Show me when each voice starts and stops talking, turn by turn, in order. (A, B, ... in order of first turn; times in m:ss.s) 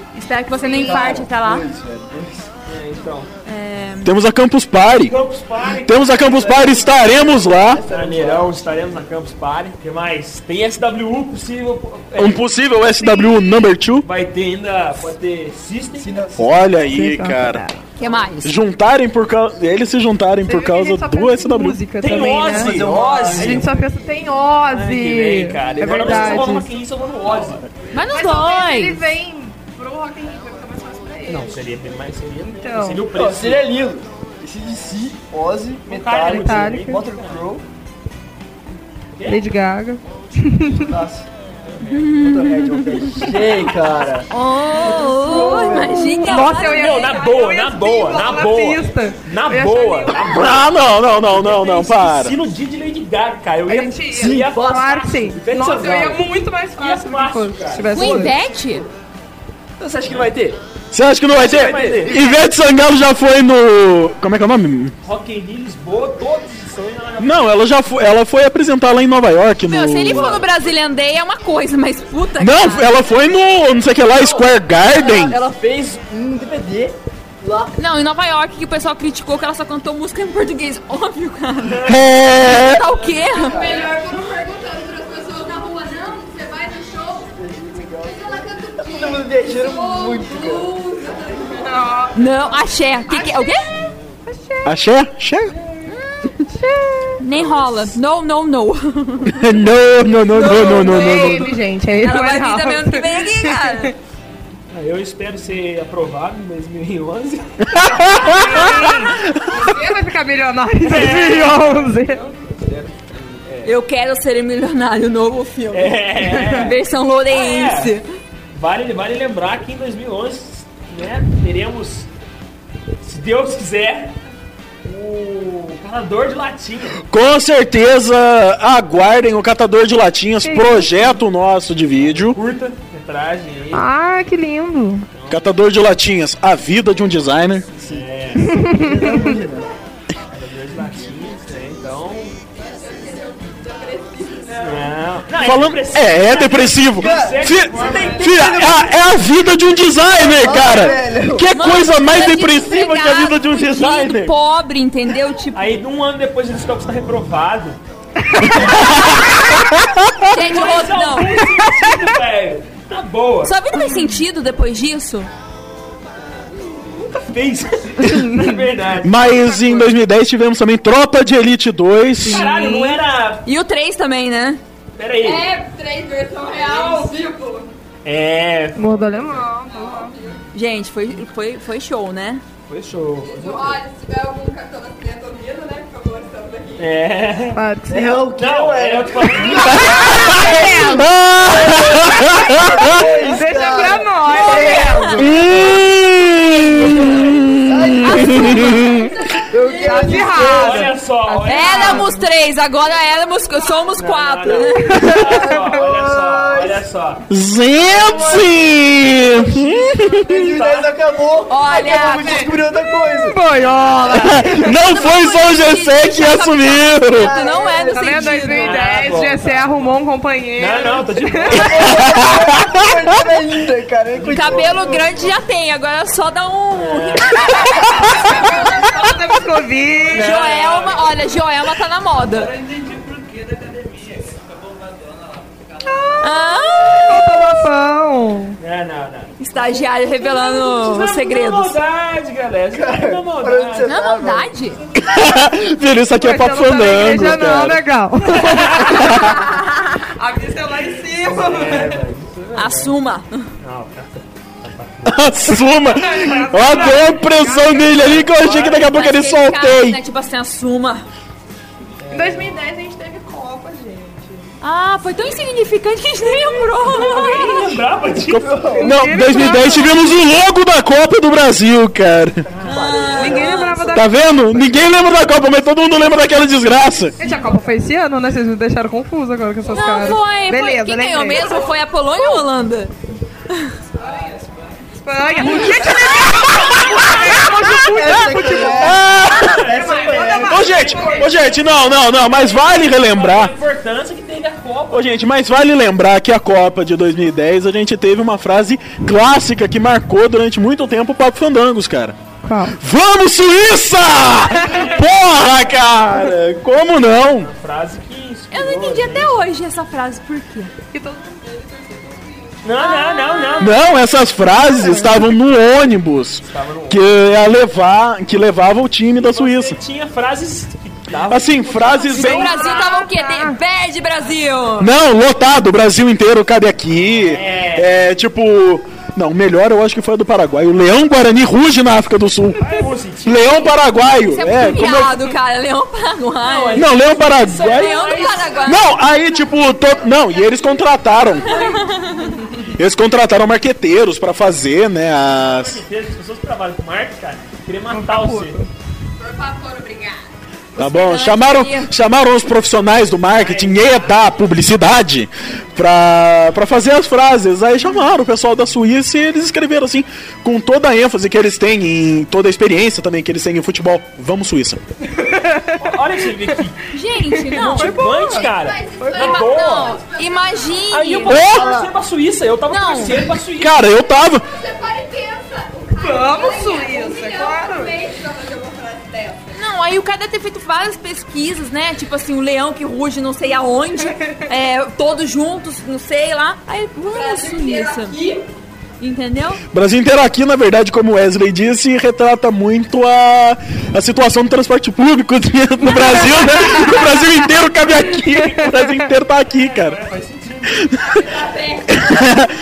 0:00.1-0:01.6 A
0:00.7-0:02.5 B
0:00.8-0:01.2 C
0:02.7-0:03.3 D
0:03.4-0:04.1 A
0:04.0-0:05.1 E
0:04.9-0:06.6 D
0:05.8-0:07.8 E
0:06.2-0:08.8 B
0:07.9-0:12.4 D
0:12.2-0:14.1 E
0:14.0-0:16.2 D
0:16.0-0:16.6 B
0:16.4-0:17.6 E
0:16.8-0:17.8 C
0:18.0-0:18.5 A
0:18.4-0:21.8 E
0:20.4-0:26.7 C
0:22.0-0:23.6 D
0:22.5-0:23.8 B
0:24.7-0:27.6 D
0:25.8-0:26.6 B
0:27.3-0:27.6 B
0:27.9-0:29.0 A
0:28.1-0:31.6 C
0:31.3-0:33.7 D
0:32.5-0:33.0 C
0:33.1-0:37.6 B
0:35.8-0:37.5 D
0:36.2-0:37.0 C
0:39.2-0:39.4 D
0:39.3-0:40.9 C
0:40.7-0:41.3 B
0:41.7-0:41.9 D
0:41.9-0:43.3 A
0:42.0-0:44.3 B
0:43.3-0:43.7 D
0:44.3-0:47.2 A
0:44.8-0:46.2 B
0:45.2-0:50.4 C
0:46.5-0:50.6 D
0:50.2-0:52.4 E
0:51.3-0:58.2 D
0:53.6-0:58.3 C
0:54.1-0:55.4 B
0:57.9-0:58.8 A
0:59.8-1:00.6 B
1:00.9-1:04.9 E
1:01.3-1:02.3 B
1:01.4-1:02.1 D
1:05.0-1:07.5 D
1:07.2-1:10.4 E
1:09.7-1:13.0 A
1:10.1-1:10.4 B
1:12.4-1:15.4 E
1:14.9-1:17.7 B
1:17.8-1:23.6 A
1:21.8-1:22.8 E
1:23.3-1:27.3 F
1:23.4-1:24.0 B
1:27.4-1:30.7 B
1:28.0-1:32.1 F
1:31.5-1:32.5 C
1:32.1-1:33.6 A
1:33.1-1:33.4 C
1:34.3-1:34.7 C
1:34.6-1:35.5 E
1:35.9-1:36.1 A
1:36.3-1:37.1 C
1:37.2-1:39.6 A
1:37.4-1:37.7 B
1:39.3-1:41.6 E
1:40.3-1:43.9 C
1:40.4-1:41.4 A
1:42.0-1:43.9 A
1:44.7-1:48.9 D
1:47.7-1:48.4 E
1:48.3-1:49.0 A
1:49.5-1:50.0 F
1:49.5-1:52.2 C
1:50.8-1:53.7 D
1:53.6-1:58.0 A
1:55.7-1:56.8 D
1:56.3-1:56.6 C
1:57.3-1:58.0 D
1:58.5-2:02.1 D
2:03.0-2:04.1 D
2:04.8-2:07.0 D
2:07.1-2:12.4 E
2:10.4-2:11.0 C
2:12.0-2:13.8 D
2:13.7-2:15.0 C
2:15.1-2:15.4 D
2:15.3-2:17.7 E
2:17.8-2:19.7 B
2:17.8-2:18.5 D
2:18.4-2:19.4 C
2:20.3-2:22.4 D
2:22.6-2:24.9 F
2:24.6-2:28.5 D
2:25.3-2:25.8 A
2:25.4-2:34.3 E
2:27.0-2:28.9 B
2:30.1-2:31.4 B
2:31.5-2:35.8 A
2:35.5-2:37.8 D
2:38.5-2:40.2 E
2:40.3-2:41.4 A
2:40.3-2:43.5 D
2:43.4-2:45.3 A
2:47.1-2:49.9 D
2:48.0-2:48.5 C
2:49.0-2:52.5 E
2:52.2-2:53.0 C
2:52.2-2:53.4 D
2:53.4-2:54.6 A
2:55.0-2:55.5 D
2:55.2-2:57.7 F
2:58.0-2:59.4 D
2:58.7-3:00.1 C
2:59.5-3:00.4 F
3:00.5-3:02.4 A
3:02.7-3:03.8 D
3:03.2-3:06.9 F
3:06.8-3:07.6 D
3:07.5-3:08.2 C
3:07.9-3:10.9 B
3:08.3-3:10.2 D
3:10.0-3:13.0 E
3:10.2-3:11.1 C
3:11.8-3:15.6 B
3:13.2-3:15.3 C
3:14.3-3:15.0 A
3:15.2-3:18.7 E
3:16.9-3:20.8 B
3:18.0-3:18.8 A
3:18.2-3:20.4 F
3:19.7-3:22.2 C
3:20.3-3:22.1 D
3:21.4-3:25.0 A
3:24.0-3:27.2 D
3:24.6-3:25.8 C
3:25.1-3:26.8 B
3:27.3-3:30.5 E
3:27.8-3:28.9 B
3:30.1-3:33.4 B
3:30.5-3:30.9 D
3:31.5-3:32.5 A
3:33.1-3:34.8 C
3:34.1-3:37.3 E
3:34.9-3:38.9 A
3:37.2-3:39.2 B
3:37.9-3:41.7 C
3:38.6-3:39.9 D
3:40.6-3:42.0 D
3:41.5-3:45.3 B
3:42.0-3:42.7 E
3:44.2-3:48.9 A
3:46.9-3:47.2 D
3:48.2-3:50.3 C
3:50.1-3:51.1 D
3:50.1-3:52.5 A
3:52.4-3:53.5 D
3:56.2-3:57.6 A
3:57.0-3:58.6 C
3:58.6-3:59.3 D
3:59.4-4:01.8 A
4:00.2-4:03.9 D
4:02.7-4:04.5 B
4:03.8-4:04.8 A
4:05.0-4:07.8 E
4:06.2-4:09.4 C
4:08.4-4:09.0 D
4:08.8-4:09.3 E
4:09.1-4:10.0 A
4:10.2-4:12.0 C
4:11.2-4:12.9 D
4:12.5-4:13.5 A
4:13.6-4:15.7 D
4:15.0-4:20.0 E
4:15.9-4:18.3 C
4:17.9-4:19.0 D
4:18.7-4:21.1 A
4:22.1-4:22.5 D
4:22.1-4:24.5 C
4:24.6-4:27.7 A
4:26.2-4:26.6 C
4:26.8-4:28.8 D
4:28.3-4:28.9 B
4:28.3-4:32.4 E
4:28.6-4:30.1 C
4:32.6-4:33.0 D
4:32.6-4:33.6 B
4:32.6-4:34.0 A
4:32.7-4:34.8 C
4:33.9-4:37.2 E
4:37.2-4:42.4 C
4:39.7-4:42.9 A
4:44.0-4:44.4 F
4:45.0-4:48.6 C
4:45.4-4:46.4 A
4:45.7-4:49.7 E
4:47.7-4:50.6 B
4:49.3-4:51.5 D
4:49.8-4:51.3 C
4:50.4-4:53.5 E
4:52.5-4:55.1 D
4:54.9-5:02.2 E
5:02.4-5:02.8 C
5:02.7-5:07.5 E
5:07.4-5:09.5 D
5:08.5-5:10.7 A
5:10.9-5:12.2 C
5:11.4-5:12.6 F
5:12.6-5:13.8 D
5:12.8-5:13.5 A
5:13.6-5:19.8 E
5:16.4-5:17.0 D
5:19.2-5:22.4 D
5:21.3-5:22.5 E
5:22.1-5:24.9 A
5:22.4-5:23.6 C
5:24.8-5:32.6 E
5:27.2-5:27.9 D
5:32.6-5:33.8 D
5:33.2-5:35.2 E
5:34.0-5:36.9 A
5:36.4-5:38.8 D
5:36.7-5:38.1 E
5:37.6-5:38.9 A
5:38.6-5:41.5 E
5:41.5-5:42.4 A
5:41.8-5:42.5 C
5:42.8-5:45.8 E
5:45.3-5:48.6 D
5:47.9-5:48.7 C
5:49.2-5:50.3 F
5:50.8-5:51.9 A
5:50.8-6:04.8 E
5:53.4-5:54.1 D
6:05.2-6:05.7 C
6:05.8-6:06.8 D
6:06.9-6:08.2 A
6:07.4-6:09.2 C
6:07.5-6:10.0 D
6:08.3-6:10.9 F
6:09.1-6:11.4 A
6:10.9-6:13.9 D
6:11.3-6:11.8 E
6:12.7-6:13.3 A
6:13.6-6:14.4 E
6:14.4-6:19.6 F
6:16.0-6:17.9 C
6:19.5-6:28.2 A
6:27.1-6:28.4 F
6:29.0-6:29.6 A
6:29.7-6:40.0 E
6:36.7-6:37.0 C
6:38.6-6:38.9 C
6:39.4-6:40.9 D
6:41.0-6:42.0 F
6:41.9-6:42.5 E